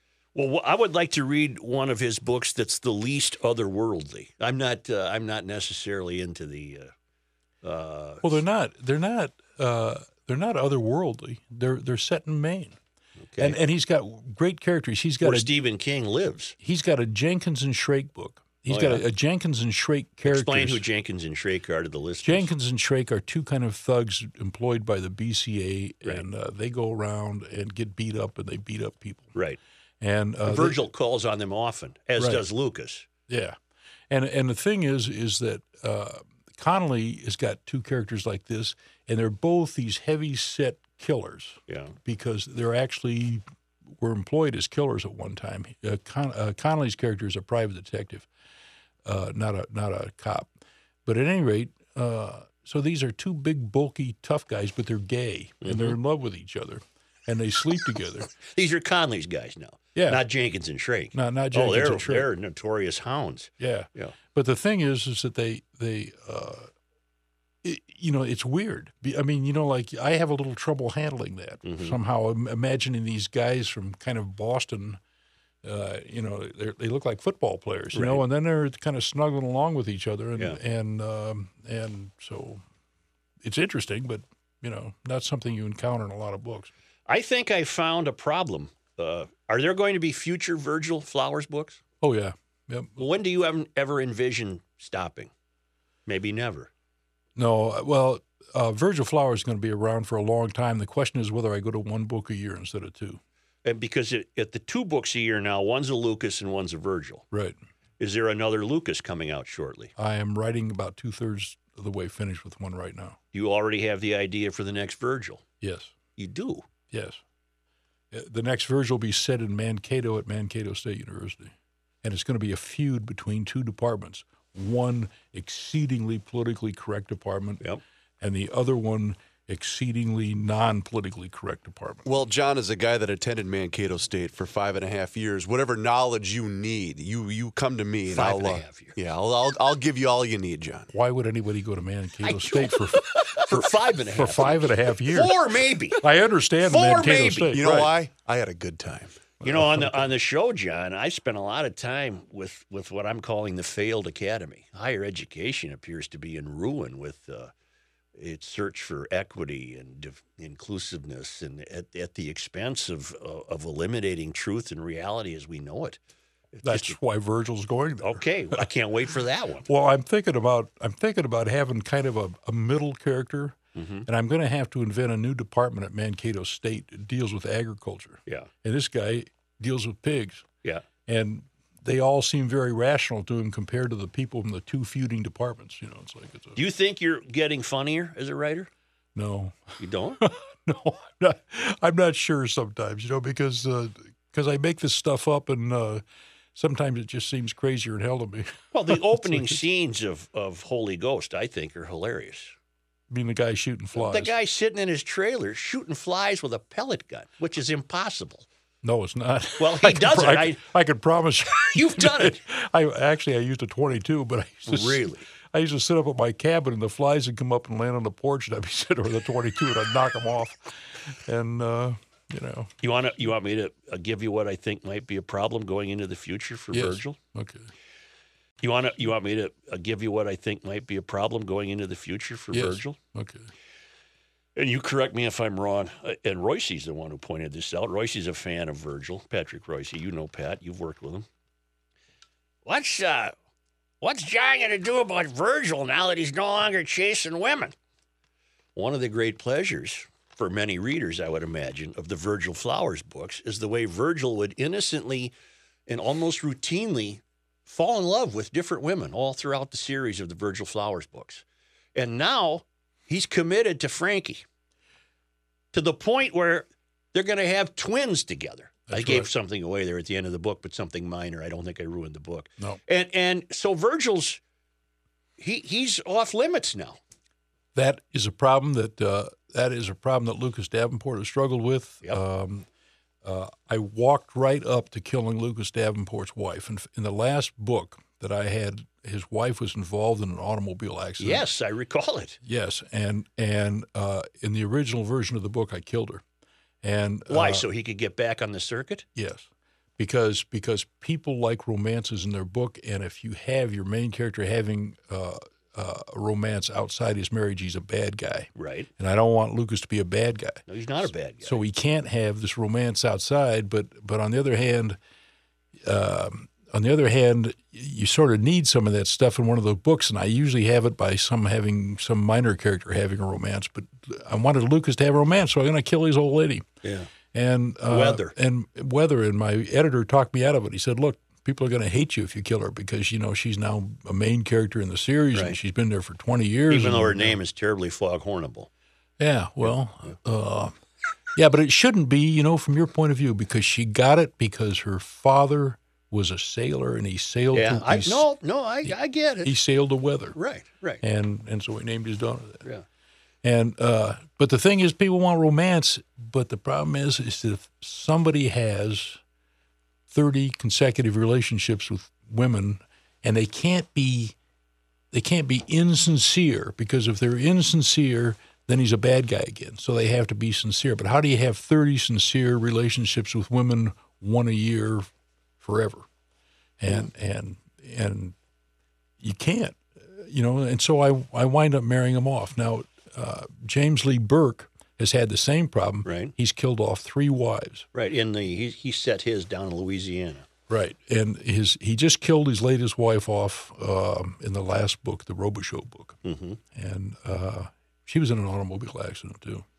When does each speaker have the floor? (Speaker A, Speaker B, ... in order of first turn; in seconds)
Speaker A: 0.3-6.9, 7.6-8.4, 13.2-13.6, 15.2-16.6, 18.7-19.0, 20.2-22.5, 30.5-33.1, 41.7-42.0, 55.6-56.0, 58.4-64.2, 71.6-72.0, 77.9-78.2, 87.1-91.8, 93.0-95.3, 96.1-96.7, 103.6-107.2, 108.0-109.9, 113.3-115.4, 116.2-116.6, 138.1-139.0, 142.2-146.0, 146.6-147.6, 149.4-157.5, 158.2-166.0, 166.5-167.0, 168.0-169.7, 173.8-174.1, 186.6-188.7, 189.8-190.2, 198.7-202.5, 203.9-208.5, 209.6-210.6, 211.7-212.4, 214.7-215.2, 222.8-227.2, 228.6-233.0, 234.6-241.3, 242.7-243.3, 244.0-247.7, 248.8-255.3, 255.9-261.4, 261.9-264.4, 265.7-274.4, 275.4-277.0, 291.2-292.4, 297.3-299.1, 308.6-308.9, 310.7-311.6, 326.8-327.1, 327.9-328.3, 336.7-338.7, 339.6-340.1, 347.5-349.5, 350.4-351.0, 386.1-386.3, 387.9-390.5, 396.2-396.6
Speaker B: 8.2-12.8, 13.4-15.5, 16.6-20.9, 22.2-29.3, 30.0-30.8, 32.2-32.4, 33.3-33.6, 34.1-43.4, 44.0-48.3, 49.0-50.5, 51.1-58.3, 60.0-60.2, 61.1-62.3, 63.6-66.7, 67.6-75.0, 75.6-82.6, 83.4-86.7, 92.0-93.0, 97.4-103.2, 107.3-107.6, 110.0-113.2, 115.6-115.9, 116.9-117.2, 118.1-127.6, 128.2-132.1, 140.9-145.4, 146.0-147.9, 149.4-150.1, 166.6-168.7, 169.7-180.4, 181.1-186.6, 189.1-196.0, 196.6-199.6, 203.1-204.3, 208.8-222.7, 226.7-227.7, 232.5-233.5, 268.9-269.3, 277.8-282.7, 283.2-291.5, 292.4-296.2, 296.8-297.7, 299.1-299.5, 300.0-310.6, 311.4-315.0, 315.8-326.6, 327.3-337.4, 339.2-340.7, 341.4-348.2, 348.8-350.4, 351.0-352.6, 353.4-359.2, 360.1-364.4, 365.1-375.1, 375.6-376.1, 376.8-378.4, 379.2-387.9, 390.7-396.2, 396.7-399.6
Speaker C: 132.1-140.9, 147.5-149.2